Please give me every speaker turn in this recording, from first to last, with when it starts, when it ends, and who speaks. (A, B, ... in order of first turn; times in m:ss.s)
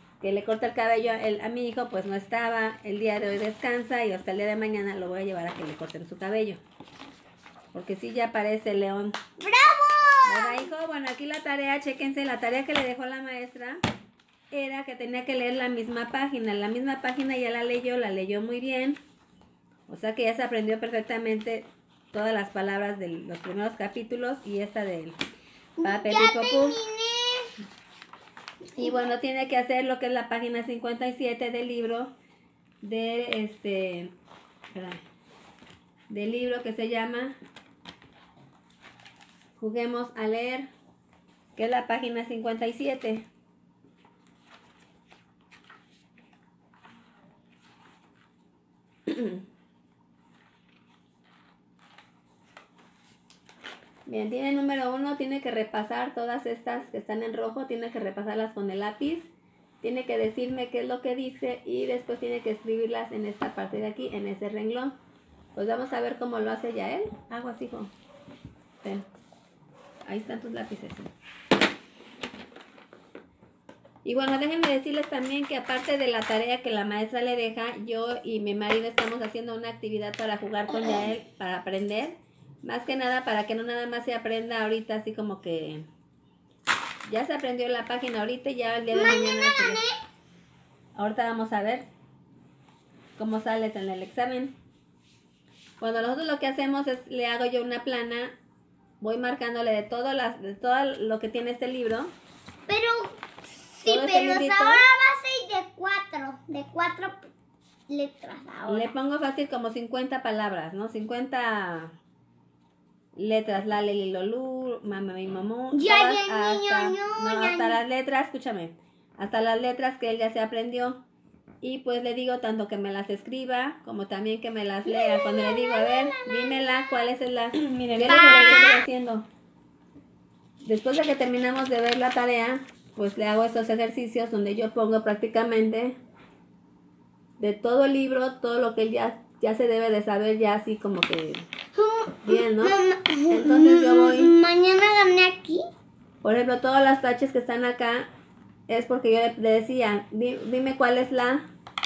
0:00.2-0:06.6 A
0:07.7-0:09.2 A
0:09.4-0:10.7 B
0:10.2-0:13.8 A
0:14.5-0:19.0 A
0:19.9-0:25.2 A
0:25.8-0:27.5 B
0:25.8-0:26.8 A
0:28.8-0:29.1 B
0:28.8-0:32.1 A
0:32.8-0:34.1 A
0:34.7-0:35.0 A
0:36.1-0:37.3 A
0:39.6-0:40.7 A
0:41.6-0:43.2 A
0:49.1-0:49.4 A
0:54.0-0:59.3 A
0:59.8-1:04.9 A
1:05.5-1:07.9 A
1:08.8-1:09.1 A
1:10.0-1:11.1 A
1:14.0-1:25.9 A
1:20.7-1:21.0 B
1:27.0-1:29.8 A
1:28.9-1:30.0 B
1:30.9-1:31.9 A
1:33.2-1:34.5 A
1:35.8-1:38.3 A
1:39.0-1:42.1 A
1:42.7-1:47.2 B
1:43.8-1:44.8 A
1:47.9-1:48.9 B
1:48.7-1:51.9 A
1:53.2-2:01.0 A
1:55.7-1:57.8 B
2:01.6-2:09.2 A
2:04.8-2:07.0 B
2:08.0-2:08.8 B
2:10.6-2:16.0 A
2:17.4-2:21.5 A
2:21.7-2:25.6 B
2:22.2-2:22.8 A
2:23.3-2:24.3 A
2:26.2-2:28.1 A
2:28.7-2:31.5 A